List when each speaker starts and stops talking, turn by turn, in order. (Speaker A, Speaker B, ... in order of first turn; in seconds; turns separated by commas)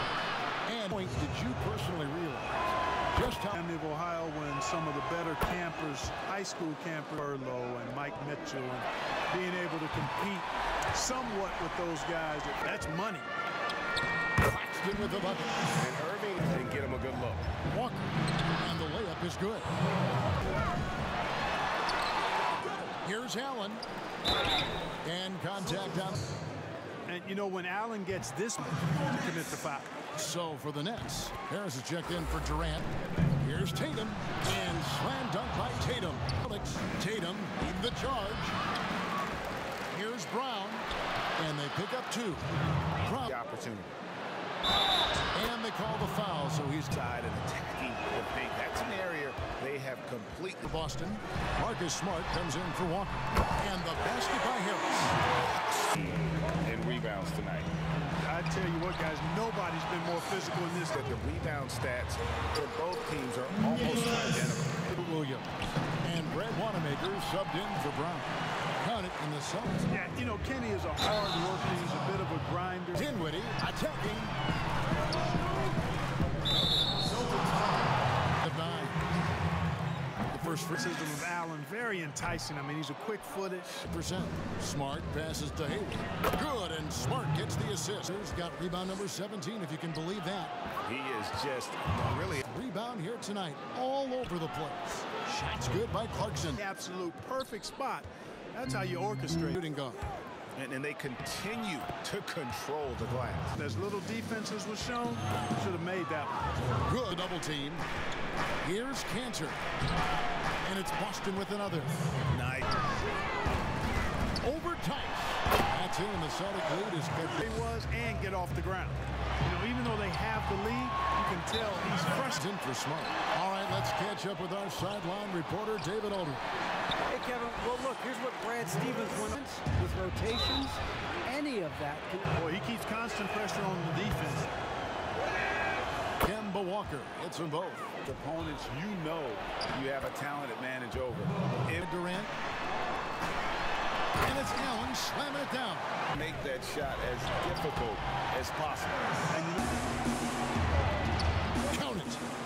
Speaker A: 0.7-2.6, Speaker A: 3.1-3.5, Speaker B: 3.5-13.3, Speaker A: 14.4-15.4, Speaker C: 15.8-17.4, Speaker A: 17.7-18.1, Speaker A: 18.6-19.7, Speaker A: 23.0-23.8, Speaker A: 25.0-26.2, Speaker B: 27.1-29.9, Speaker A: 30.2-38.6, Speaker A: 39.9-42.5, Speaker A: 43.0-43.3, Speaker C: 43.0-43.9, Speaker A: 45.4-47.0, Speaker C: 46.9-50.7, Speaker A: 50.7-55.2, Speaker C: 55.7-57.7, Speaker B: 57.9-61.0, Speaker C: 60.9-64.9, Speaker A: 64.9-65.5, Speaker A: 66.0-68.3, Speaker A: 68.8-69.9, Speaker B: 69.9-73.1, Speaker A: 73.0-74.3, Speaker A: 77.2-77.5, Speaker A: 78.4-79.0, Speaker A: 80.3-80.8, Speaker B: 80.6-83.8, Speaker A: 83.8-90.5, Speaker C: 90.8-92.4, Speaker A: 92.5-96.6, Speaker B: 96.5-99.6, Speaker A: 99.5-100.0, Speaker C: 100.6-103.5, Speaker B: 103.5-106.4, Speaker A: 106.8-107.9, Speaker A: 108.6-109.6, Speaker A: 110.6-111.9, Speaker C: 112.3-112.8, Speaker A: 114.4-117.5, Speaker B: 117.4-122.4, Speaker A: 122.2-126.4, Speaker D: 127.1-132.3, Speaker B: 132.3-134.5, Speaker A: 136.2-137.9, Speaker C: 138.1-141.9, Speaker A: 141.8-142.3, Speaker A: 144.2-145.9, Speaker C: 146.1-149.1, Speaker B: 149.3-149.6, Speaker A: 151.7-152.2